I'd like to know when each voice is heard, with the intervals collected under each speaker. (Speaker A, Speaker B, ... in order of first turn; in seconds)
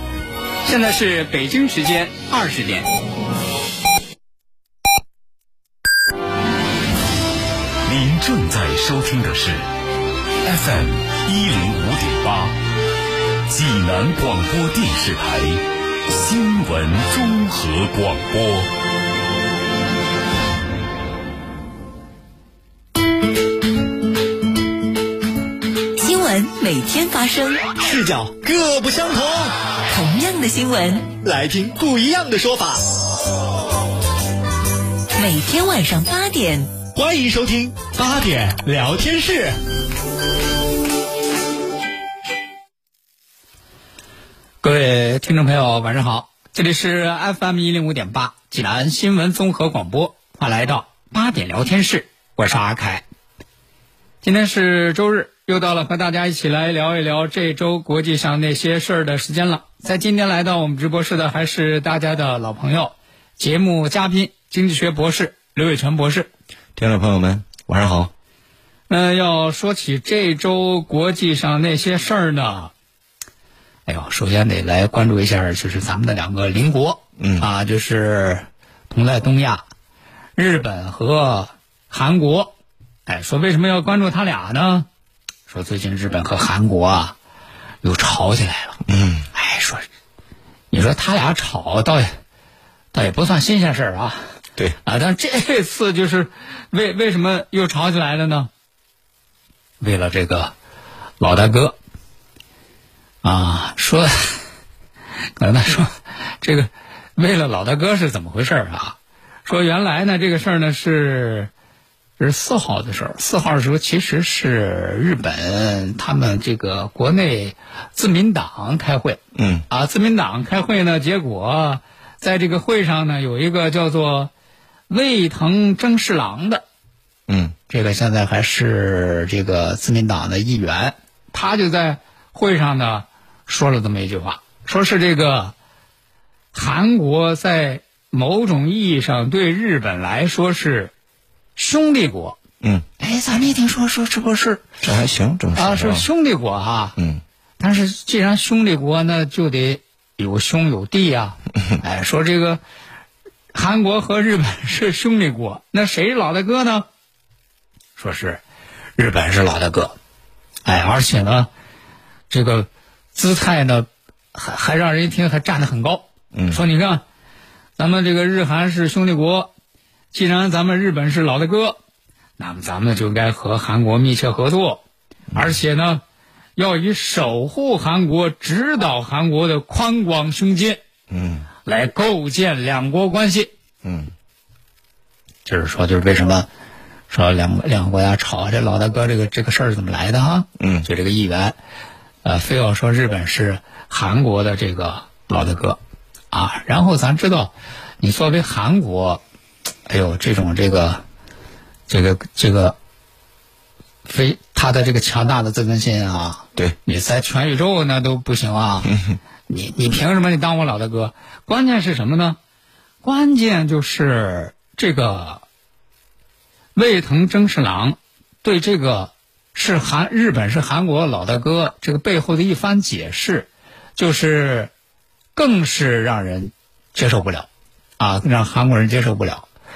Speaker A: 0.6-2.9, 44.6-53.0, 54.2-66.3, 68.9-72.7, 73.8-79.6, 80.3-82.5, 83.1-84.9, 85.5-87.2, 87.8-88.8, 89.3-89.8, 90.7-92.2, 92.9-94.2, 94.8-98.5, 99.8-100.5, 101.2-101.8, 103.2-104.4, 105.4-111.5, 112.2-124.3, 124.9-126.6, 127.7-135.5, 136.5-140.9, 141.6-142.4, 143.0-144.6, 145.6-146.9, 147.6-152.6, 153.5-156.9, 157.9-158.4, 159.0-159.9, 160.6-161.5, 162.3-167.0, 167.8-169.5, 170.1-171.8, 172.4-174.8, 175.3-176.0, 176.6-180.8, 181.7-183.5, 185.4-186.5, 187.1-191.6, 192.2-195.8, 196.3-199.2, 199.9-201.0, 201.9-202.8, 204.1-208.9, 209.5-212.4, 213.0-215.4, 216.7-224.7, 225.3-227.5, 228.0-229.5
Speaker B: 7.8-9.6, 10.4-12.6, 13.5-18.7
Speaker C: 26.0-27.7, 29.9-31.1, 35.1-36.7
Speaker D: 27.8-29.5, 31.2-32.8, 36.9-39.5
Speaker E: 66.8-68.1, 77.2-77.5, 88.9-89.3, 119.3-119.7, 127.3-127.5, 144.8-146.1, 147.0-147.2, 166.3-166.6, 181.1-181.5, 183.8-184.1, 190.6-190.9, 208.9-209.1